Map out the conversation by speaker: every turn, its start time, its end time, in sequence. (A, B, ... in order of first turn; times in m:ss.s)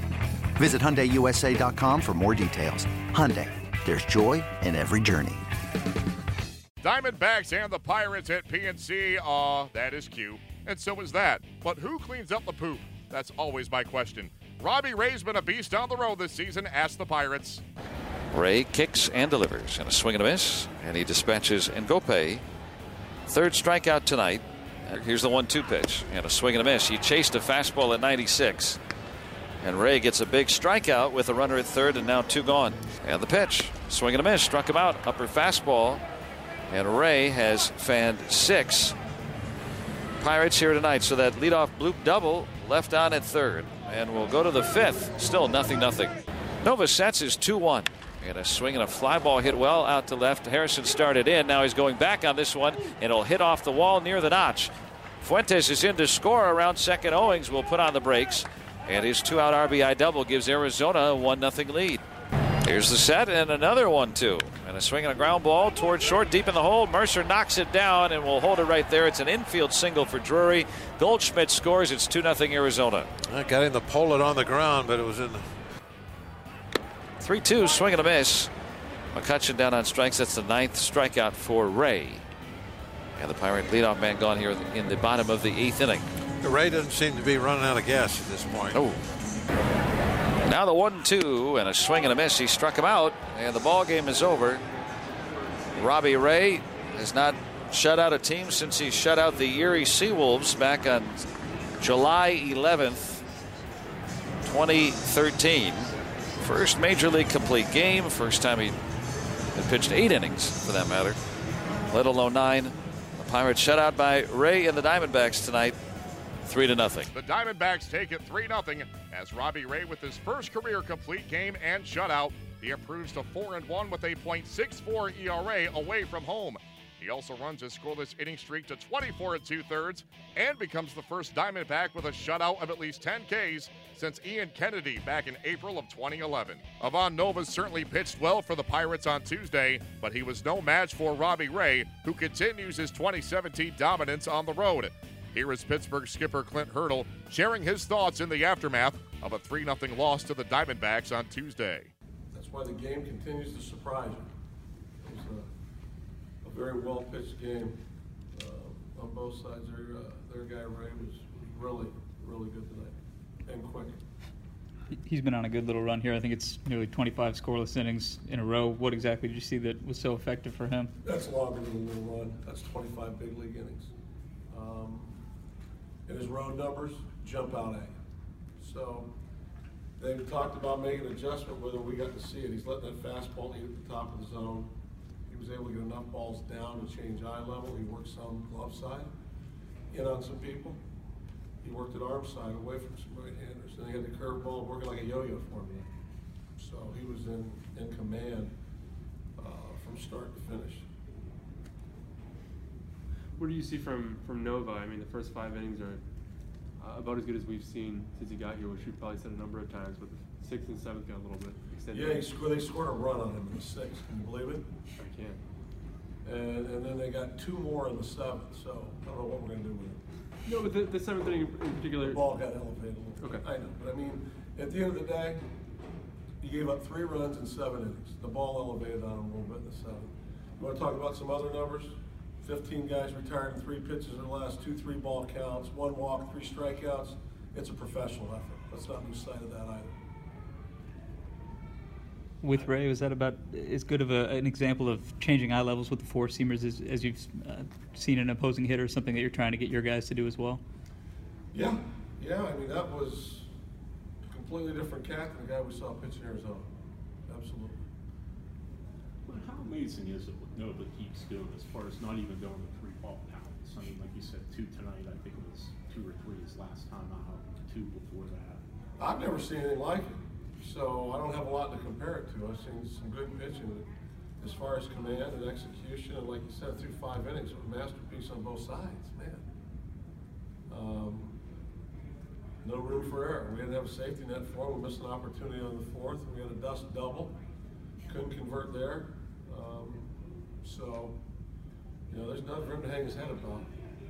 0:00.6-0:05.4 A
0:06.8-0:17.6 B
0:18.3-0:22.4 C
0:23.3-0:28.8 C
0:29.6-0:36.0 C
0:36.7-0:39.0 C
0:40.2-1:02.0 C
1:02.6-1:13.1 C
1:13.2-1:15.5 D
1:17.2-1:18.5 C
1:19.1-1:22.2 C
1:23.2-1:26.1 C
1:26.4-1:28.8 D
1:28.7-1:29.0 C
1:30.4-1:34.6 C
1:35.8-1:41.2 C
1:41.8-1:43.2 C
1:44.4-1:48.8 C
1:49.6-1:51.2 C
1:51.9-1:55.8 C
1:56.4-1:57.1 C
1:57.1-2:31.9 B
2:32.3-2:34.3 E
2:35.0-2:35.5 E
2:36.4-2:37.8 E
2:38.3-2:44.0 E
2:45.0-2:50.9 F
2:51.0-2:53.9 E
2:54.5-2:55.2 E
2:56.1-2:57.9 E
2:58.6-2:59.1 E
3:00.0-3:04.7 E
3:05.3-3:09.1 E
3:09.9-3:10.8 E
3:11.6-3:15.9 E
3:16.6-3:18.5 E
3:19.4-3:20.8 E
3:23.4-3:26.0 G
3:26.8-3:32.0 G
3:31.9-3:34.7 E
3:35.0-3:35.4 G
3:36.2-3:40.0 E
3:40.5-3:42.2 G
3:42.0-3:45.4 E
3:46.4-3:59.9 E
4:02.4-4:10.6 F
4:11.5-4:13.5 E
4:14.2-4:16.7 E
4:17.3-4:17.8 E
4:19.2-4:28.6 H
4:29.0-4:33.9 E
4:34.4-4:39.4 E
4:40.7-4:41.4 E
4:42.6-4:47.4 E
4:48.1-4:50.1 E
4:50.6-4:51.2 E
4:52.1-4:53.7 E